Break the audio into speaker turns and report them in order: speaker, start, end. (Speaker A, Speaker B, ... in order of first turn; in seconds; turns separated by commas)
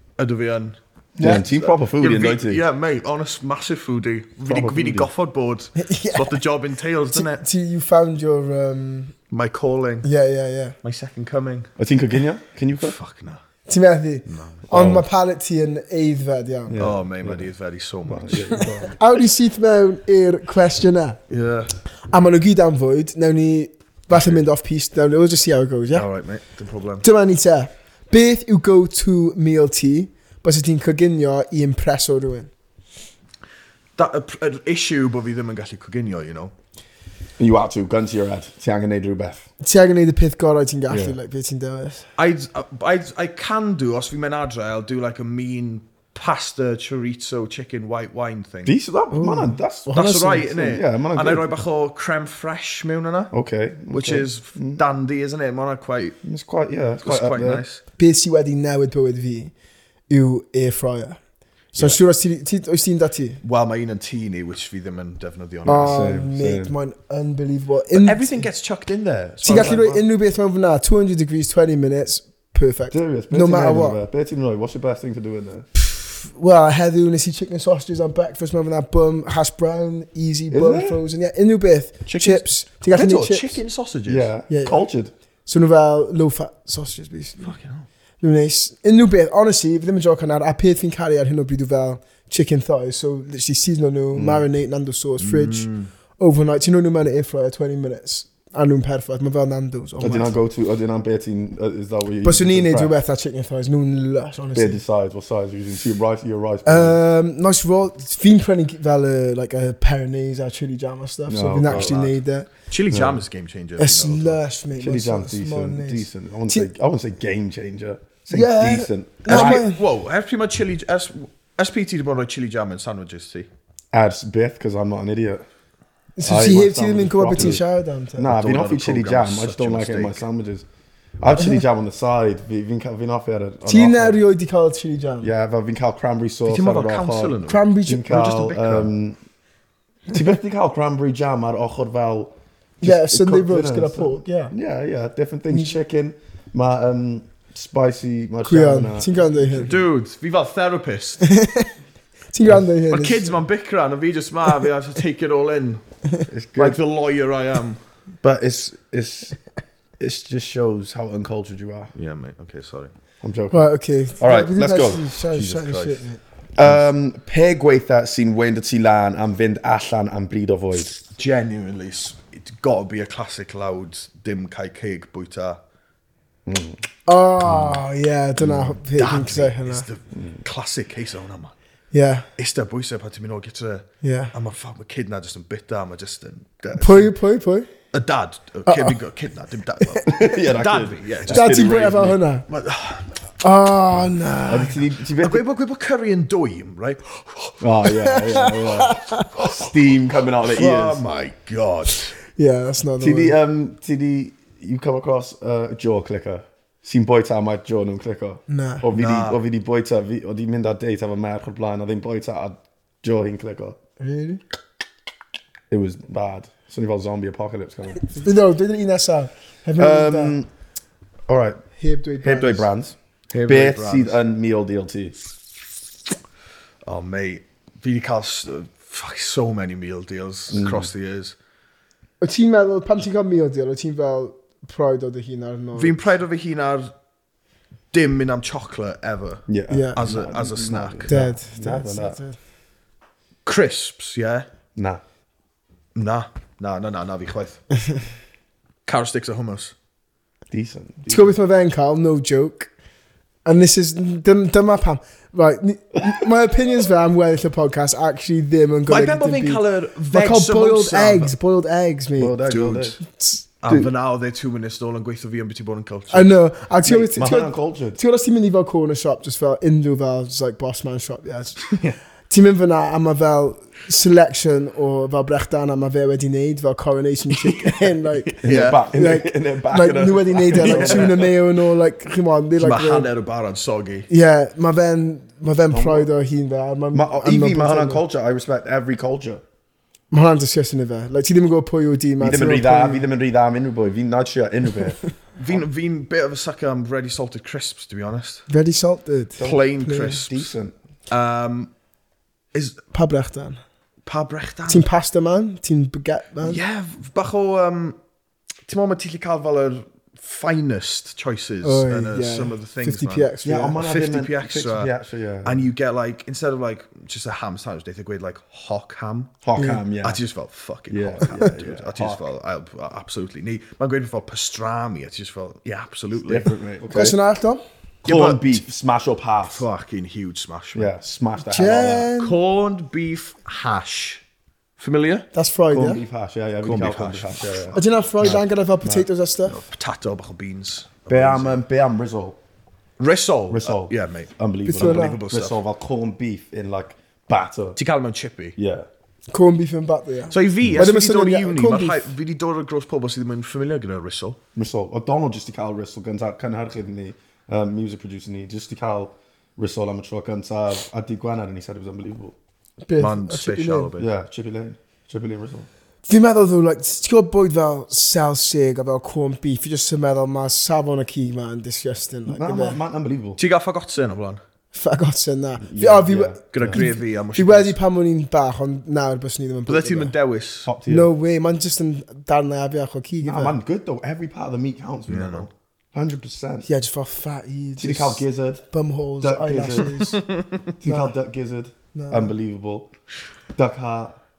Speaker A: 0.2-7.5, Speaker B: 1.2-2.6, Speaker C: 1.2-1.5, Speaker B: 4.5-5.1, Speaker C: 5.8-6.4, Speaker C: 7.1-9.2, Speaker A: 9.3-10.1, Speaker C: 10.0-10.8, Speaker A: 10.8-11.7, Speaker B: 11.8-13.0, Speaker A: 12.8-13.4, Speaker C: 13.7-16.8, Speaker A: 14.3-14.7, Speaker B: 14.7-15.1, Speaker B: 16.7-17.5, Speaker A: 16.8-18.6, Speaker B: 18.0-19.0, Speaker C: 18.5-21.2, Speaker A: 21.3-21.8, Speaker C: 22.0-26.1, Speaker A: 24.1-24.4, Speaker A: 25.9-27.0, Speaker C: 27.0-32.5, Speaker A: 34.0-36.5, Speaker B: 37.4-39.5, Speaker C: 39.6-42.1, Speaker B: 40.9-41.2, Speaker A: 42.2-48.8, Speaker B: 48.6-49.9, Speaker C: 49.1-50.8, Speaker A: 49.9-53.3, Speaker B: 50.5-51.5, Speaker B: 53.3-54.8, Speaker A: 53.9-56.2, Speaker B: 56.2-57.6, Speaker A: 57.0-57.8, Speaker C: 58.0-59.5, Speaker C: 60.1-61.2, Speaker C: 61.8-63.4, Speaker A: 63.4-66.0, Speaker B: 65.7-66.7, Speaker C: 65.7-68.5, Speaker A: 67.9-70.0, Speaker C: 69.4-74.0, Speaker B: 69.5-69.9, Speaker B: 72.9-75.7, Speaker C: 76.0-83.6, Speaker B: 80.5-81.0, Speaker A: 82.1-84.3, Speaker B: 84.1-85.1, Speaker C: 84.5-84.9, Speaker C: 85.5-87.5, Speaker A: 87.4-87.9, Speaker C: 88.2-100.3, Speaker B: 94.2-94.5, Speaker A: 95.2-95.9, Speaker B: 100.0-102.9, Speaker C: 102.2-104.8, Speaker B: 104.5-107.0, Speaker C: 106.7-112.5, Speaker B: 111.3-112.0, Speaker A: 111.7-114.4, Speaker B: 112.9-113.2, Speaker C: 113.8-116.7, Speaker B: 114.8-119.7, Speaker C: 118.3-119.8, Speaker A: 119.3-123.5, Speaker B: 123.9-125.4, Speaker C: 126.2-128.3, Speaker B: 126.2-127.6, Speaker B: 128.2-130.7, Speaker A: 128.3-130.2, Speaker B: 131.2-134.2, Speaker C: 131.4-131.6, Speaker C: 133.7-135.3, Speaker B: 135.2-139.2, Speaker A: 136.5-138.9, Speaker C: 137.5-138.1, Speaker B: 140.1-149.8, Speaker C: 142.8-144.5, Speaker C: 148.4-149.8, Speaker A: 149.6-151.2, Speaker C: 151.2-151.7, Speaker C: 152.3-153.4, Speaker A: 152.5-155.8, Speaker B: 156.3-156.8, Speaker A: 156.6-157.8, Speaker B: 158.2-159.4, Speaker B: 160.0-161.9, Speaker A: 161.9-162.9, Speaker B: 163.2-163.7, Speaker C: 163.5-166.2, Speaker B: 164.2-165.1, Speaker A: 165.3-166.1, Speaker B: 166.6-171.0, Speaker A: 171.2-175.6, Speaker B: 176.5-176.8, Speaker C: 177.1-179.9, Speaker B: 177.4-177.8, Speaker B: 178.4-178.8, Speaker A: 178.9-181.5, Speaker C: 181.9-182.3, Speaker A: 182.4-187.1, Speaker C: 184.0-184.3, Speaker C: 186.8-187.7, Speaker A: 187.9-191.6, Speaker C: 188.7-188.9, Speaker B: 190.1-192.2, Speaker C: 191.3-192.5, Speaker A: 192.5-193.2, Speaker C: 193.4-194.8, Speaker B: 194.5-195.4, Speaker A: 195.2-197.6, Speaker B: 197.6-201.0, Speaker C: 197.9-199.4, Speaker A: 200.5-202.2, Speaker C: 202.3-203.3, Speaker B: 203.0-213.8, Speaker C: 208.5-208.9, Speaker A: 208.9-209.4, Speaker C: 214.0-214.4, Speaker B: 215.7-218.2, Speaker C: 218.1-220.4, Speaker B: 219.8-220.5, Speaker B: 221.3-221.6, Speaker C: 221.8-222.7, Speaker B: 222.2-225.2, Speaker A: 223.3-224.2, Speaker A: 226.8-231.3, Speaker B: 230.5-230.9, Speaker C: 232.2-236.1, Speaker A: 235.7-236.9, Speaker A: 237.9-241.2, Speaker B: 239.5-242.2, Speaker C: 239.7-240.0, Speaker C: 241.1-242.4, Speaker A: 243.5-244.5, Speaker B: 244.8-245.0, Speaker A: 245.9-247.6, Speaker A: 248.9-249.7, Speaker B: 250.5-251.3, Speaker C: 251.1-252.7, Speaker C: 253.4-262.4, Speaker A: 258.9-261.3, Speaker B: 262.2-263.0, Speaker A: 262.5-263.0, Speaker C: 263.0-263.5, Speaker A: 263.6-266.3, Speaker C: 266.1-271.7, Speaker B: 266.8-268.0, Speaker A: 271.7-272.0, Speaker C: 272.3-283.1, Speaker A: 277.3-278.8, Speaker B: 278.4-281.3, Speaker A: 280.5-281.3, Speaker A: 282.6-284.1, Speaker C: 284.1-288.0, Speaker B: 285.7-286.1, Speaker B: 286.9-289.4, Speaker C: 290.1-293.1, Speaker B: 292.2-295.0, Speaker A: 295.4-298.5, Speaker C: 298.5-300.2, Speaker B: 299.4-300.8, Speaker A: 299.4-300.5, Speaker A: 301.1-301.7, Speaker A: 302.5-302.8, Speaker C: 302.9-303.6, Speaker A: 304.1-304.9, Speaker C: 304.7-306.6, Speaker A: 306.4-308.0, Speaker A: 308.7-314.9, Speaker C: 311.6-313.8, Speaker B: 313.4-315.7, Speaker A: 315.4-319.4, Speaker B: 319.4-320.2, Speaker C: 319.6-319.8, Speaker A: 320.0-326.5, Speaker B: 320.9-322.3, Speaker B: 326.2-327.2, Speaker C: 326.9-327.6, Speaker A: 328.1-328.6, Speaker B: 328.1-329.7, Speaker A: 329.4-330.9, Speaker B: 330.8-332.1, Speaker C: 331.4-332.4, Speaker A: 332.2-334.2, Speaker A: 334.8-335.3, Speaker C: 335.3-336.0, Speaker B: 335.7-339.1, Speaker A: 336.6-337.8, Speaker C: 337.7-339.6, Speaker A: 339.5-341.6, Speaker B: 341.1-342.4, Speaker A: 343.0-345.6, Speaker B: 343.5-347.8, Speaker C: 344.6-345.2, Speaker A: 347.8-348.6, Speaker B: 348.6-348.9, Speaker C: 349.3-352.2, Speaker A: 350.3-354.4, Speaker B: 354.6-362.4, Speaker C: 362.9-363.9, Speaker A: 363.0-364.1, Speaker B: 364.0-365.7, Speaker C: 366.1-372.8, Speaker B: 372.3-373.4, Speaker A: 373.4-374.4, Speaker C: 374.7-380.1, Speaker B: 375.6-376.9, Speaker A: 376.5-377.8, Speaker A: 379.7-380.7, Speaker B: 380.6-381.1, Speaker C: 380.9-383.6, Speaker B: 383.2-386.7, Speaker A: 385.1-385.5, Speaker C: 386.6-390.2, Speaker B: 387.8-388.6, Speaker B: 389.2-389.9, Speaker A: 389.9-390.6, Speaker B: 390.8-392.9, Speaker C: 390.9-391.1, Speaker C: 391.9-392.3, Speaker B: 393.6-394.2